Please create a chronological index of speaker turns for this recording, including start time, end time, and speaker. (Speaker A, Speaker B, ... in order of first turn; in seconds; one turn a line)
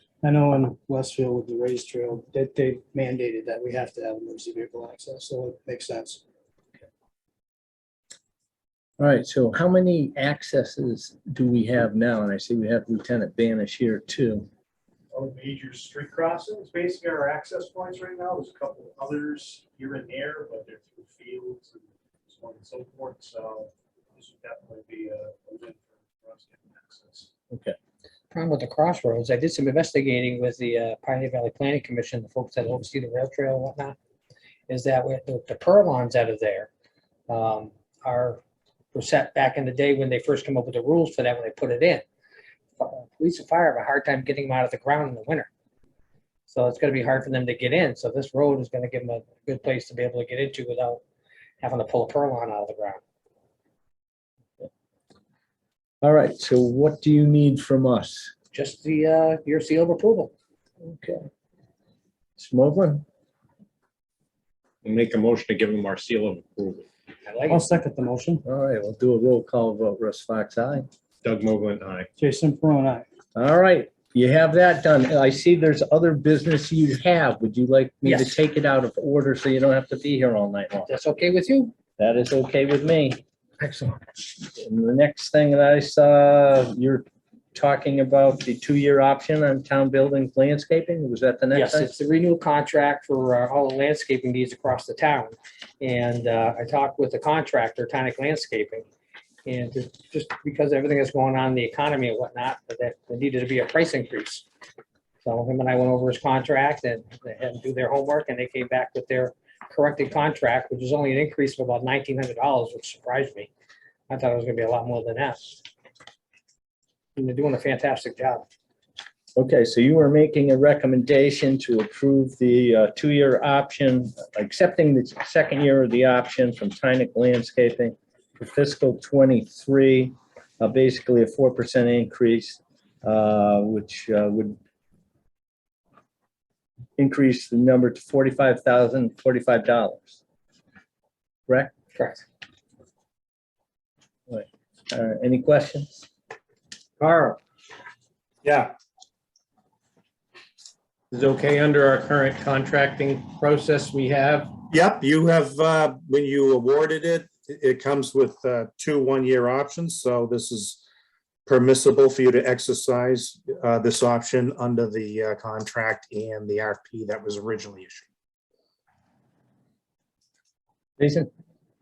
Speaker A: 0.2-6.2
Speaker B: 9.0-14.5
Speaker C: 15.1-27.3
Speaker B: 27.5-27.8
Speaker D: 28.3-34.0
Speaker D: 34.7-36.7
Speaker D: 37.3-38.4
Speaker D: 38.9-42.0
Speaker D: 42.8-45.5
Speaker D: 46.5-51.0
Speaker D: 51.6-53.0
Speaker B: 56.0-58.3
Speaker D: 58.5-60.3
Speaker B: 60.8-61.3
Speaker B: 62.4-63.0
Speaker E: 64.8-66.9
Speaker D: 67.2-67.6
Speaker A: 67.5-68.4
Speaker B: 68.5-70.9
Speaker E: 71.2-72.1
Speaker A: 72.2-73.0
Speaker B: 73.3-80.9
Speaker D: 78.0-78.3
Speaker D: 80.9-81.7
Speaker B: 82.0-83.2
Speaker D: 83.6-84.0
Speaker B: 84.5-91.9
Speaker D: 91.5-98.8
Speaker D: 99.4-104.5
Speaker D: 105.2-113.5
Speaker D: 114.1-115.6
Speaker D: 117.2-118.4
Speaker B: 119.3-134.6
Speaker B: 137.0-140.2
Speaker D: 141.9-142.2
Speaker B: 144.3-146.1
Speaker E: 147.0-147.4
Speaker F: 148.4-148.7
Speaker E: 151.1-154.6
Speaker F: 154.7-160.8
Speaker F: 161.4-168.1
Speaker B: 171.0-171.3